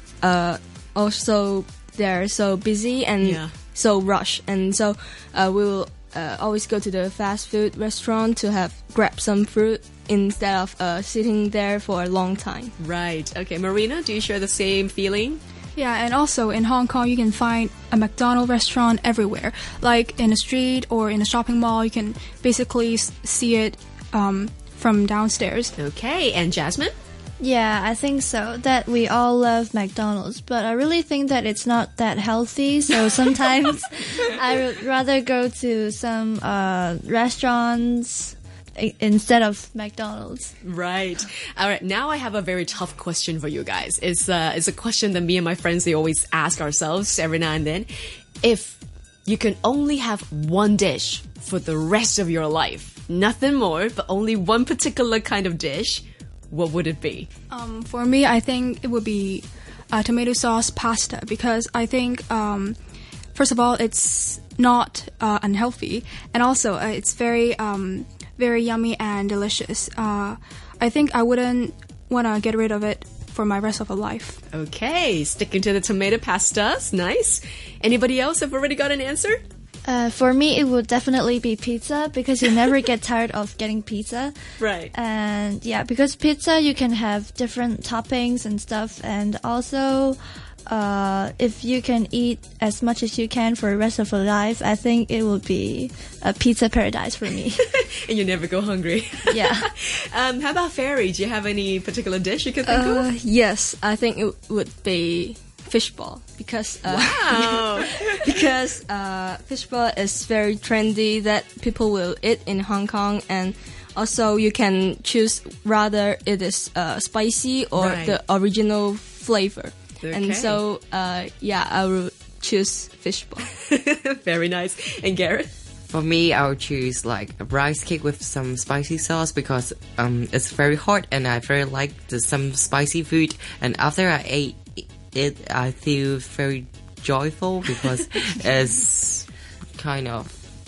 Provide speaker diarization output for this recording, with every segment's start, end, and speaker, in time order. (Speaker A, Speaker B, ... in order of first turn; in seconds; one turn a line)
Speaker A: 0.2-12.7
Speaker B: 3.2-3.5
Speaker B: 12.8-15.4
Speaker C: 15.8-25.7
Speaker B: 25.8-26.9
Speaker D: 27.4-40.5
Speaker B: 40.6-47.9
Speaker B: 48.4-57.3
Speaker C: 57.5-62.8
Speaker C: 63.3-74.4
Speaker B: 74.5-79.4
Speaker D: 79.8-84.3
Speaker B: 84.6-84.9
Speaker D: 84.9-97.6
Speaker B: 97.7-103.1
Speaker D: 99.3-99.7
Speaker A: 102.7-123.5
Speaker B: 106.8-108.3
Speaker B: 117.8-118.2
Speaker B: 120.0-120.6
Speaker B: 123.6-125.5
Speaker E: 125.9-140.4